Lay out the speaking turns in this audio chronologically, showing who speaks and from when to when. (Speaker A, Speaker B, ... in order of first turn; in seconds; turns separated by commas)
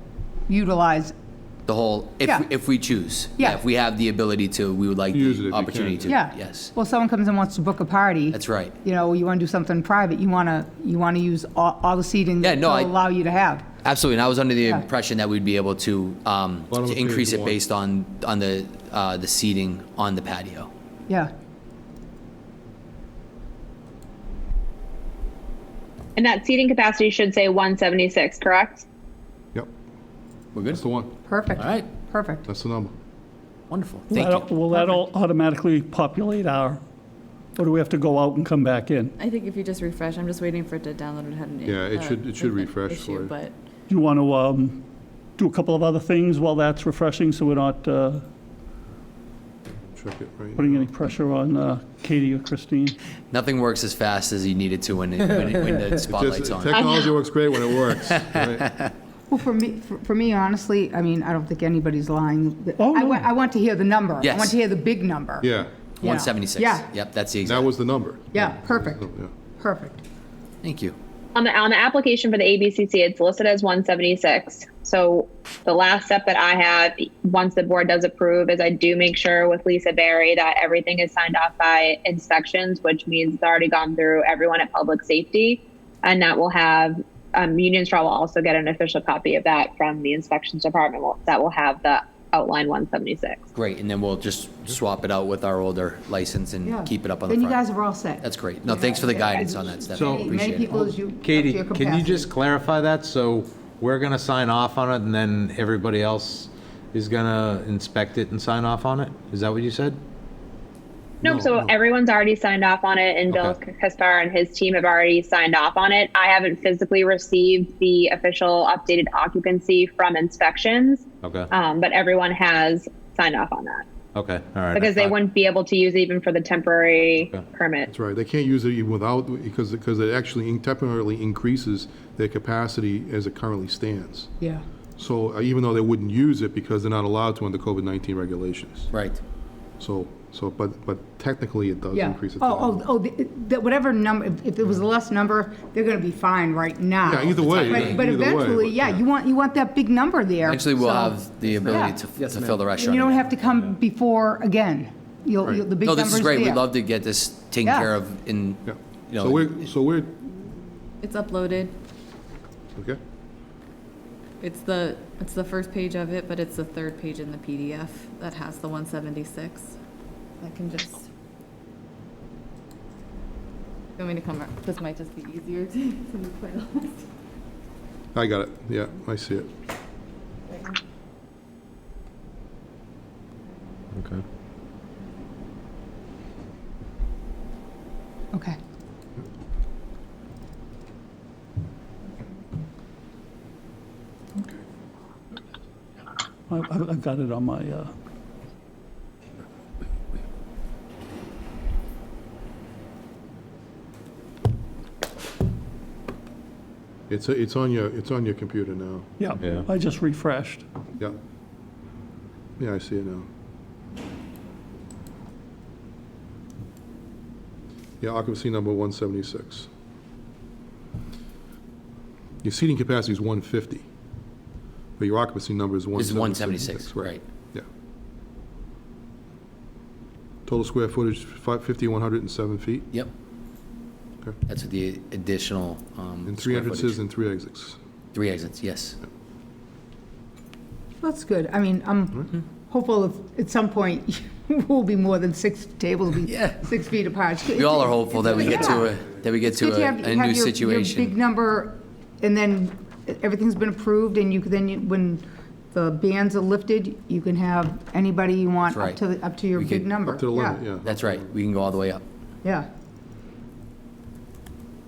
Speaker A: 0.5-1.1, Speaker B: 1.6-6.7, Speaker A: 3.4-3.6, Speaker C: 5.1-6.1, Speaker A: 6.0-13.7, Speaker B: 8.3-8.8, Speaker B: 12.4-13.0, Speaker B: 13.8-20.7, Speaker C: 16.7-17.6, Speaker D: 26.2-28.8, Speaker B: 30.5-30.8, Speaker C: 30.7-31.1, Speaker A: 31.2-32.4, Speaker B: 31.6-31.9, Speaker C: 32.5-32.9, Speaker B: 33.7-34.5, Speaker E: 34.1-36.8, Speaker E: 37.5-39.1, Speaker F: 39.2-43.5, Speaker C: 41.6-43.3, Speaker E: 43.9-44.8, Speaker E: 45.4-48.2, Speaker C: 49.9-50.8, Speaker E: 50.5-53.0, Speaker B: 53.3-56.8, Speaker C: 56.1-58.7, Speaker D: 56.7-57.1, Speaker B: 58.3-58.9, Speaker A: 59.3-65.5, Speaker E: 62.8-63.3, Speaker B: 64.2-64.6, Speaker C: 65.4-65.7, Speaker A: 66.0-66.9, Speaker B: 66.0-67.7, Speaker C: 67.4-69.3, Speaker A: 68.3-69.0, Speaker A: 69.6-70.0, Speaker B: 70.6-71.0, Speaker D: 71.3-93.5, Speaker B: 93.5-97.6, Speaker A: 96.6-102.3, Speaker B: 98.2-100.9, Speaker G: 99.9-110.0, Speaker D: 111.2-123.8, Speaker C: 111.2-111.7, Speaker G: 113.3-113.6, Speaker G: 121.2-121.5, Speaker G: 124.1-125.1, Speaker D: 124.7-127.9, Speaker C: 127.9-134.3, Speaker C: 135.0-138.9, Speaker B: 138.9-139.2, Speaker C: 139.8-142.8, Speaker A: 141.9-152.0, Speaker C: 147.0-149.0, Speaker B: 147.3-148.0, Speaker B: 150.4-153.3, Speaker A: 152.8-156.7, Speaker B: 155.8-159.7, Speaker A: 157.6-157.9, Speaker C: 158.6-160.2, Speaker F: 161.0-161.7, Speaker F: 164.4-169.8, Speaker F: 170.4-171.1, Speaker F: 174.0-177.1, Speaker C: 178.1-179.5, Speaker G: 183.9-184.2, Speaker E: 196.5-197.9, Speaker C: 207.1-209.1, Speaker E: 209.2-210.6, Speaker G: 209.4-209.7, Speaker C: 212.6-213.3, Speaker C: 218.0-219.7, Speaker C: 222.4-223.8, Speaker C: 225.0-227.6, Speaker B: 225.9-227.2, Speaker C: 230.4-232.9, Speaker B: 234.4-237.0, Speaker C: 236.2-237.8, Speaker B: 238.1-239.0, Speaker A: 241.0-260.6, Speaker B: 246.2-246.7, Speaker B: 247.4-251.1, Speaker B: 258.7-259.0, Speaker B: 259.5-259.9, Speaker C: 260.0-261.3, Speaker B: 260.8-262.0